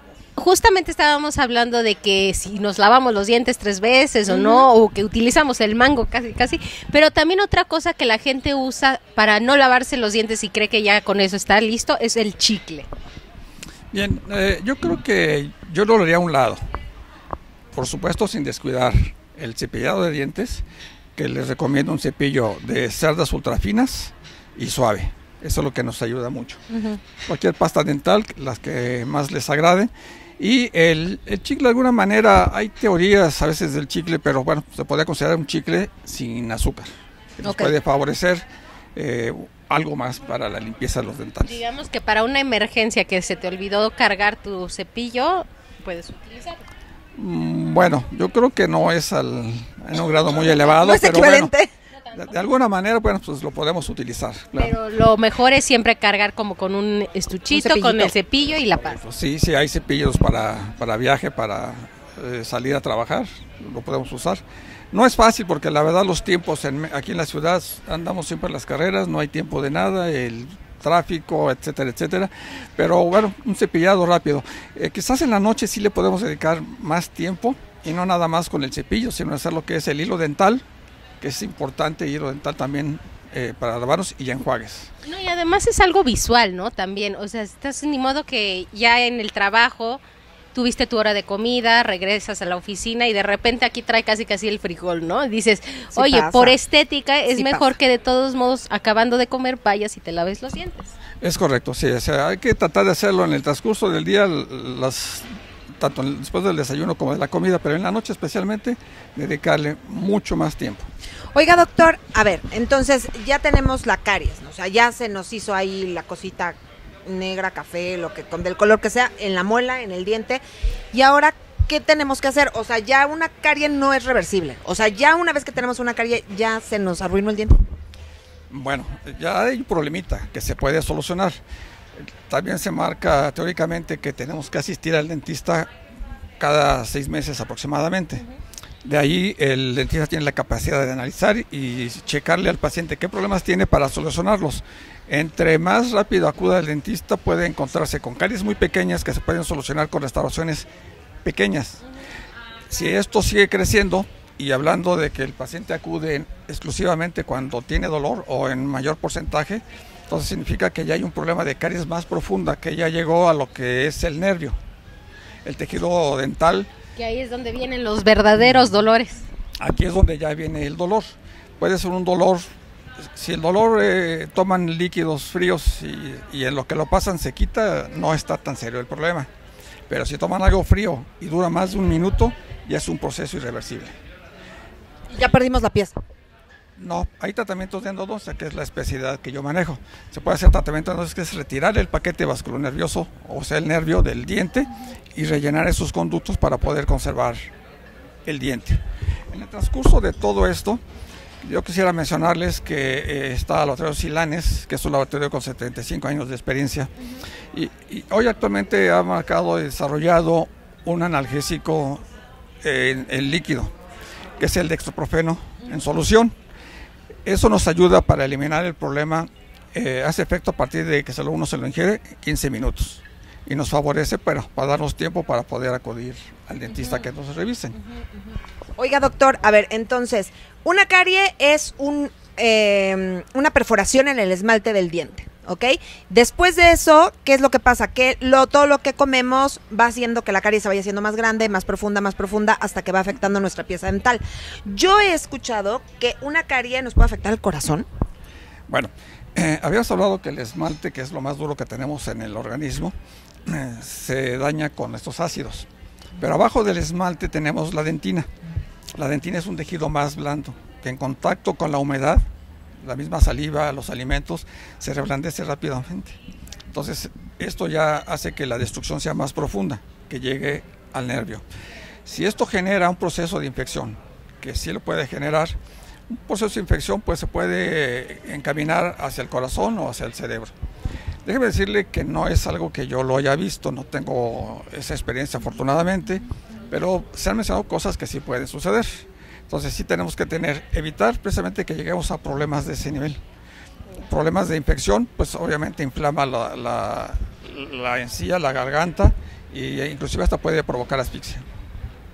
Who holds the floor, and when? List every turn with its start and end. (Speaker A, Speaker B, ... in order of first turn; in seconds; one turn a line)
Speaker A: 0.4-12.9
Speaker B: 13.9-16.6
Speaker B: 17.7-20.6
Speaker B: 21.2-41.6
Speaker C: 37.4-37.7
Speaker A: 41.5-46.6
Speaker B: 47.1-51.5
Speaker C: 50.7-51.7
Speaker B: 52.1-54.8
Speaker A: 54.6-59.0
Speaker C: 57.5-58.1
Speaker B: 58.8-80.6
Speaker B: 81.2-84.9
Speaker A: 85.0-90.0
Speaker A: 90.5-100.9
Speaker C: 95.9-96.6
Speaker C: 97.3-97.8
Speaker B: 101.2-105.3
Speaker B: 105.8-110.9
Speaker C: 111.3-120.4
Speaker C: 120.9-127.6
Speaker B: 128.5-131.4
Speaker B: 132.3-135.7
Speaker B: 136.4-138.2
Speaker B: 138.8-150.7
Speaker B: 151.2-151.8
Speaker B: 152.7-164.6
Speaker B: 165.4-166.7
Speaker A: 167.0-169.3
Speaker B: 169.6-172.5
Speaker B: 173.2-179.3
Speaker B: 179.9-183.9
Speaker C: 185.1-186.0
Speaker B: 186.8-197.5
Speaker B: 198.2-200.8
Speaker B: 201.4-206.9
Speaker B: 207.5-212.0
Speaker B: 212.6-213.7
Speaker B: 214.4-216.3
Speaker B: 217.3-227.8
Speaker C: 228.8-247.9
Speaker B: 248.7-252.9
Speaker B: 253.5-255.7
Speaker B: 256.2-258.3
Speaker B: 259.0-262.2
Speaker B: 262.8-266.2
Speaker B: 266.7-271.4
Speaker B: 272.1-275.6
Speaker B: 276.1-280.5
Speaker B: 281.2-293.2
Speaker B: 294.0-301.4